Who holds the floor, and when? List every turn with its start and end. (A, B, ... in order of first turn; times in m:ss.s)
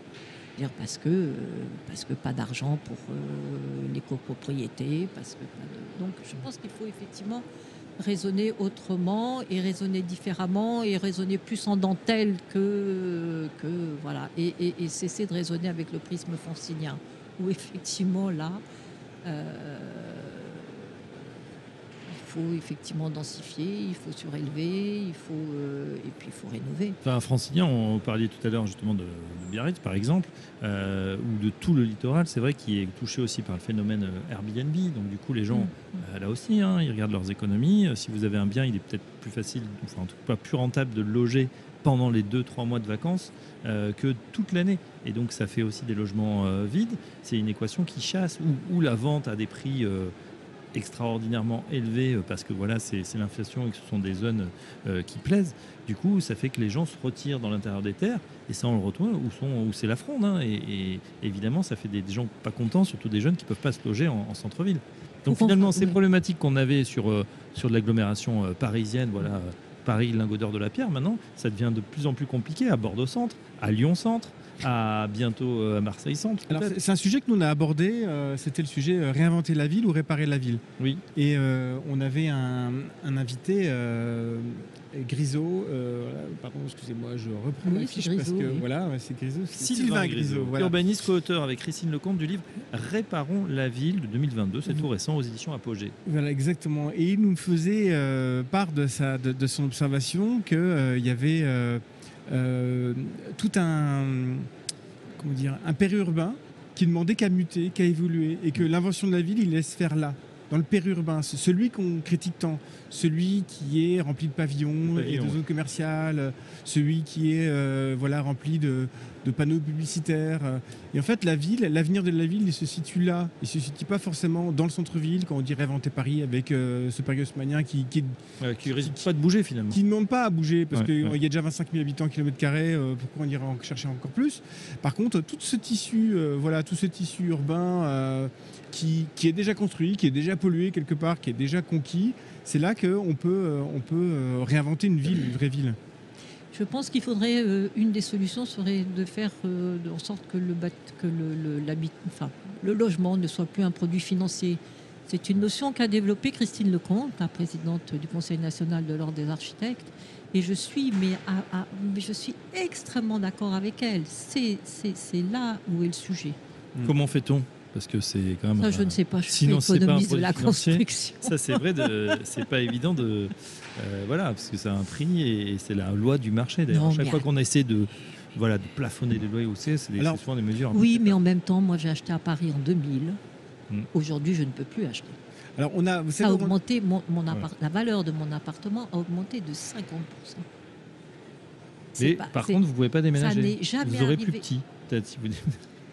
0:00.6-0:07.4 A
0:08.0-0:18.6 A
0:19.2-0:20.9 A
0:22.1-0:27.0 A
0:27.0-0:50.1 B
0:35.5-0:36.0 A
0:50.7-1:16.8 B
1:05.3-1:06.0 A
1:16.5-1:20.6 C
1:21.2-1:30.8 C
1:27.6-1:28.7 A
1:29.6-1:36.0 B
1:36.1-1:44.5 C
1:45.2-2:08.2 C
1:54.9-1:55.4 B
2:08.4-2:09.8 B
2:08.8-2:09.1 C
2:09.7-2:25.8 C
2:10.7-2:11.2 B
2:26.5-2:46.4 A
2:46.8-3:01.2 B
2:48.6-2:52.2 A
2:56.7-2:57.3 A
3:00.7-3:03.2 A
3:03.9-3:05.2 A
3:05.6-3:06.6 C
3:06.2-3:10.5 A
3:12.0-3:12.6 A
3:12.0-3:15.6 B
3:13.1-3:14.4 A